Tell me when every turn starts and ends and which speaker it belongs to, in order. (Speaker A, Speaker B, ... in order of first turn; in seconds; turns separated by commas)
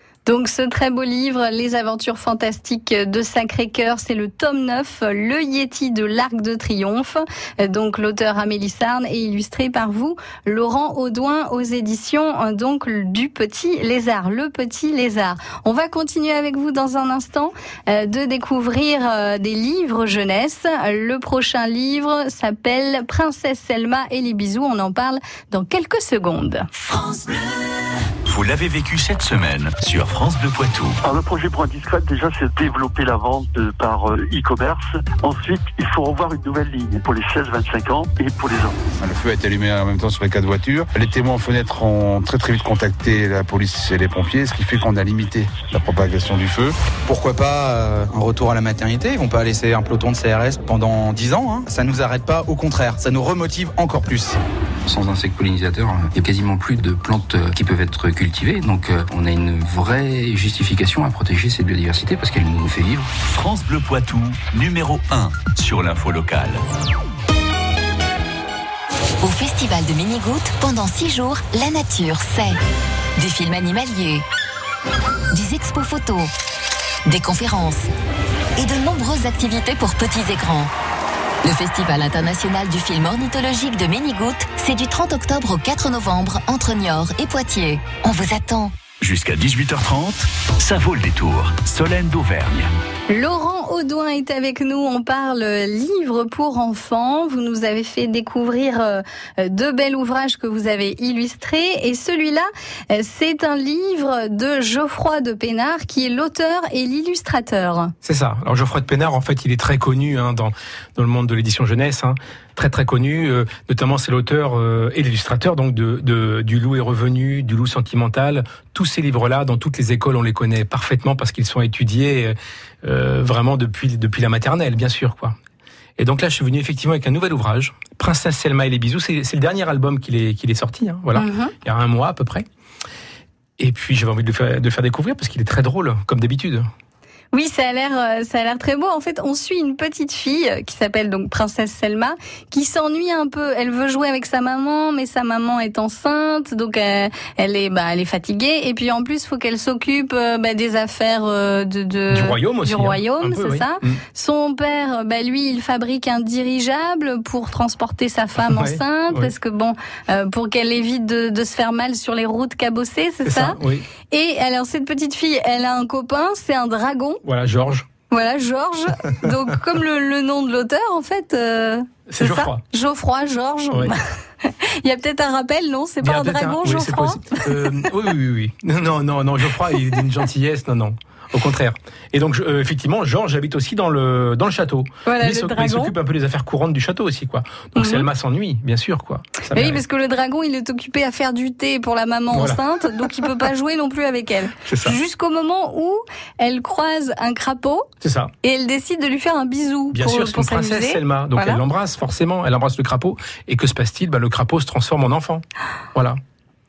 Speaker A: 0.2-26.7, Speaker B: 28.2-31.0, Speaker C: 31.0-38.8, Speaker D: 39.0-46.7, Speaker E: 47.0-54.4, Speaker F: 54.9-63.1, Speaker B: 63.3-66.6, Speaker G: 69.2-72.6, Speaker G: 73.2-74.2, Speaker G: 75.3-76.3, Speaker G: 77.0-77.8, Speaker G: 78.6-80.7, Speaker G: 81.4-88.7, Speaker B: 89.0-92.7, Speaker A: 93.1-107.9, Speaker H: 108.0-125.3, Speaker H: 126.0-132.4, Speaker A: 131.2-131.5, Speaker H: 133.6-136.6, Speaker A: 137.3-163.6, Speaker H: 152.1-154.0, Speaker H: 158.4-159.3, Speaker H: 163.2-163.9, Speaker A: 164.1-167.2, Speaker H: 167.2-167.9, Speaker A: 168.1-177.5, Speaker H: 172.1-172.6, Speaker H: 176.0-189.8, Speaker A: 185.1-185.9, Speaker A: 187.8-188.1, Speaker A: 189.5-197.8, Speaker H: 192.3-192.6, Speaker H: 194.7-195.0, Speaker H: 198.0-198.3, Speaker A: 198.4-201.6, Speaker H: 199.9-205.4